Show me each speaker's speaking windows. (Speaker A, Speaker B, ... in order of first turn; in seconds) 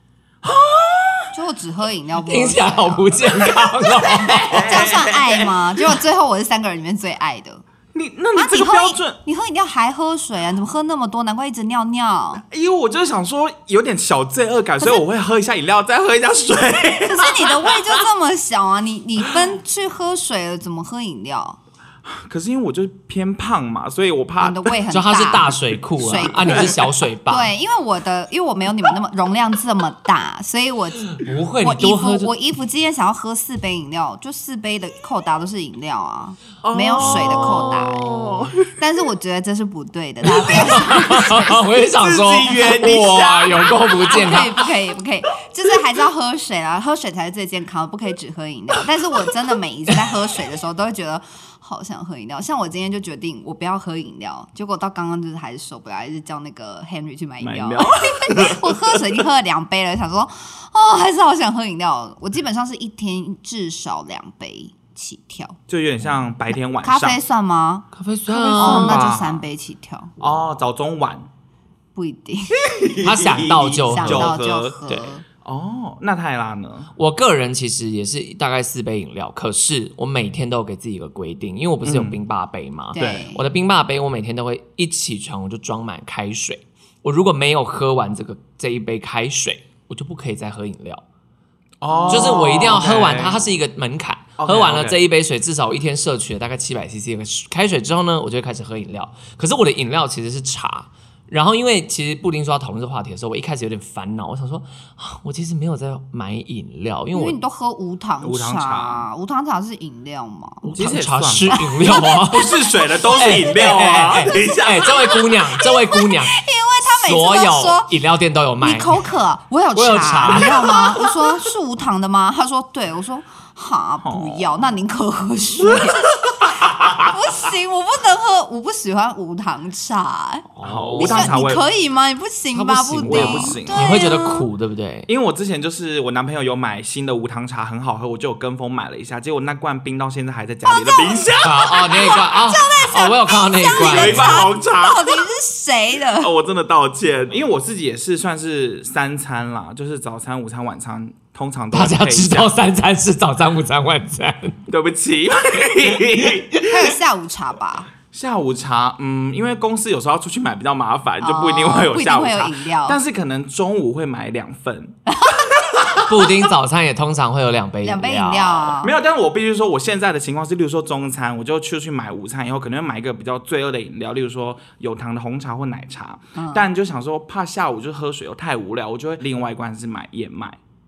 Speaker A: 0.4-1.3, 4.0-6.0, 7.9-9.2, 12.5-18.0, 22.0-24.7, 26.3-26.8, 36.6-38.6, 40.4-44.4, 57.4-59.2, 65.7-67.2, 68.3-69.4, 70.2-71.3, 72.6-74.7, 75.4-76.9, 81.8-82.2, 83.0-83.2, 91.8-93.5, 94.4-95.0, 108.2-109.0, 110.8-115.3, 124.0-124.6, 125.7-127.0, 130.6-131.6, 133.0-133.9, 135.1-142.4, 143.7-145.3, 146.2-152.5, 154.7-156.9, 158.1-164.9, 165.5-166.0, 168.8-180.6
Speaker B: 1.3-7.6, 8.3-12.4, 17.0-21.6, 24.4-38.0, 38.8-41.6, 42.5-42.8, 44.0-65.6, 66.8-67.9, 68.5-70.1, 71.9-72.7, 73.7-75.2, 82.9-83.4, 91.9-93.3, 107.1-110.7, 111.5-112.3, 115.9-117.9, 118.6-134.5, 140.6-141.4, 141.9-146.3, 156.6-157.9, 161.2-163.0, 165.1-165.5, 167.8-168.9, 176.3-176.7
Speaker C: 2.2-4.8, 24.9-27.5, 31.1-32.3, 37.0-38.5, 40.3-44.6, 67.9-69.2, 73.0-74.3, 77.0-91.0, 92.1-107.4, 110.6-119.0, 119.7-120.6, 130.5-131.4, 132.5-135.1, 141.4-144.4, 151.7-154.6, 166.0-168.7